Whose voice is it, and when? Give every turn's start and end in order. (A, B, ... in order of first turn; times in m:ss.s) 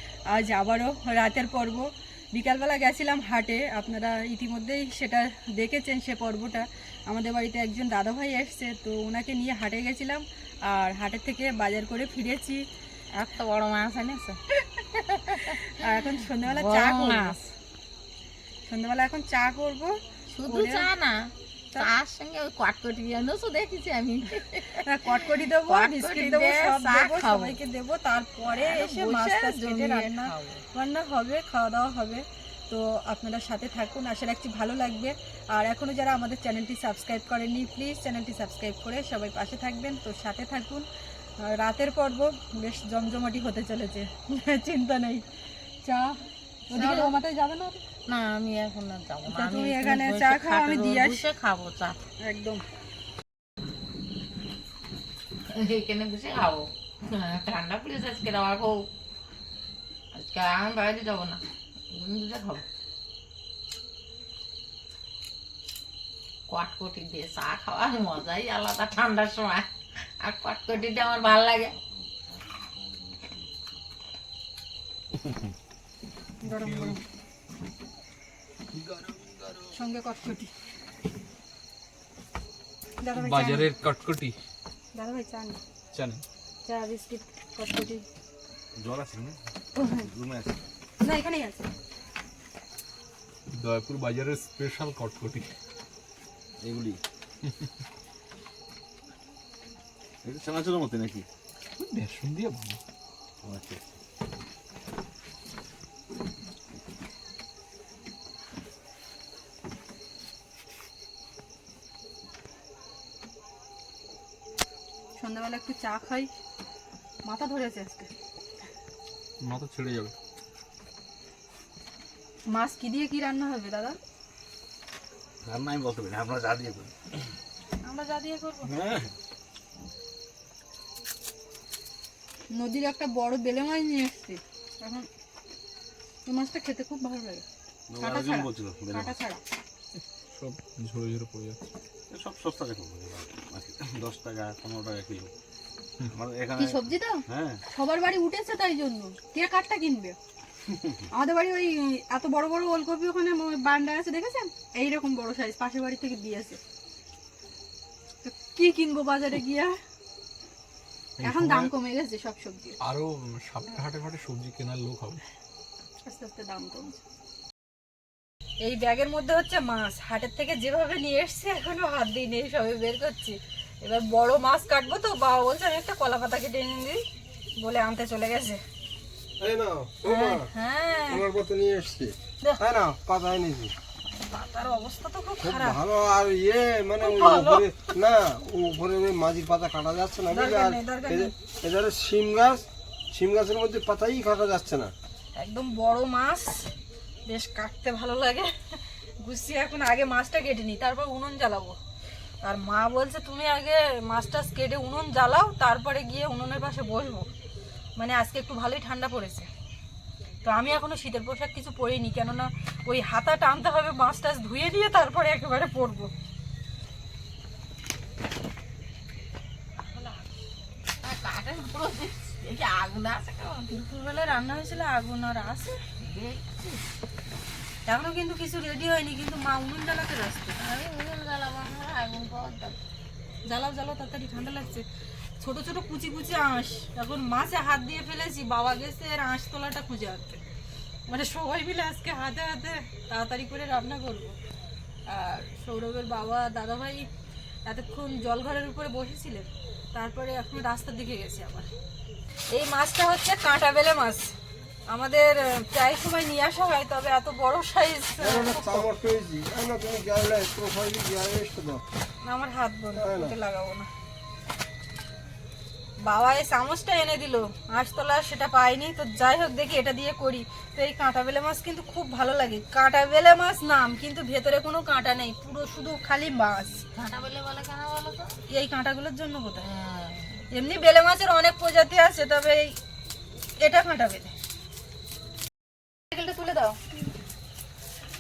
0:00.3-0:12.6 A
0:13.2-0:14.4 B
0:15.0-0:17.4 B
0:15.3-0:17.4 A
0:18.7-0:20.9 A
0:20.3-0:24.8 B
0:24.8-0:40.9 A
0:25.7-0:27.6 B
0:28.5-0:30.6 B
0:41.4-0:45.2 A
0:45.8-0:46.2 A
0:46.7-0:47.8 A
0:46.7-0:47.1 B
0:48.1-0:52.0 B
0:49.3-0:51.2 A
0:52.2-0:52.6 A
0:55.5-0:58.9 B
1:00.1-1:02.6 B
1:06.5-1:09.7 B
1:10.2-1:11.8 B
1:13.0-1:13.3 C
1:15.2-1:15.5 C
1:16.4-1:17.0 A
1:19.7-1:20.5 A
1:23.0-1:23.7 A
1:23.1-1:24.4 D
1:25.0-1:25.6 A
1:25.9-1:26.2 D
1:26.7-1:28.0 A
1:28.8-1:29.4 C
1:29.8-1:30.1 A
1:29.9-1:30.6 C
1:31.0-1:31.7 A
1:33.5-1:35.5 D
1:36.6-1:37.0 C
1:40.2-1:41.3 C
1:41.8-1:42.8 D
1:43.4-1:43.8 C
1:55.2-1:56.3 A
1:57.2-1:58.1 A
1:59.4-2:00.1 D
2:02.5-2:04.0 A
2:05.4-2:07.0 C
2:07.8-2:08.7 A
2:08.7-2:09.1 C
2:12.6-2:15.1 A
2:16.3-2:17.4 A
2:17.9-2:19.2 C
2:18.0-2:19.4 A
2:20.3-2:21.6 D
2:22.1-2:25.3 C
2:26.1-2:27.6 C
2:26.6-2:30.2 A
2:30.7-2:31.0 C
2:31.1-2:36.6 A
2:38.2-2:39.8 A
2:41.2-2:41.7 D
2:41.2-2:42.8 A
2:42.8-2:45.2 D
2:46.1-2:47.0 A
2:48.6-2:57.0 A
2:57.6-2:58.6 A
2:59.4-3:00.5 E
3:00.0-3:01.2 A
3:01.1-3:03.7 E
3:04.3-3:05.8 A
3:05.4-3:14.9 E
3:07.0-3:07.7 A
3:10.3-3:11.3 A
3:15.4-3:16.7 A
3:17.3-3:18.5 A
3:19.2-3:21.8 A
3:22.4-3:27.3 A
3:28.0-3:29.5 A
3:30.4-3:36.1 A
3:39.9-3:40.2 B
3:41.0-3:43.7 B
3:43.7-3:45.8 A
3:46.0-3:46.8 B
3:47.9-3:50.6 A
3:50.6-3:52.8 B
3:53.5-3:54.8 A
3:55.4-4:00.4 A
4:01.1-4:04.4 A
4:05.1-4:07.1 A
4:07.7-4:11.7 A
4:12.5-4:14.3 A
4:14.9-4:18.9 A
4:18.2-4:21.8 E
4:22.2-4:23.9 A
4:23.0-4:23.4 E
4:26.0-4:36.8 A
4:36.9-4:38.4 B
4:38.5-4:39.6 A
4:39.6-4:40.4 B
4:40.5-4:42.8 A
4:43.6-4:44.3 A
4:46.1-4:46.8 A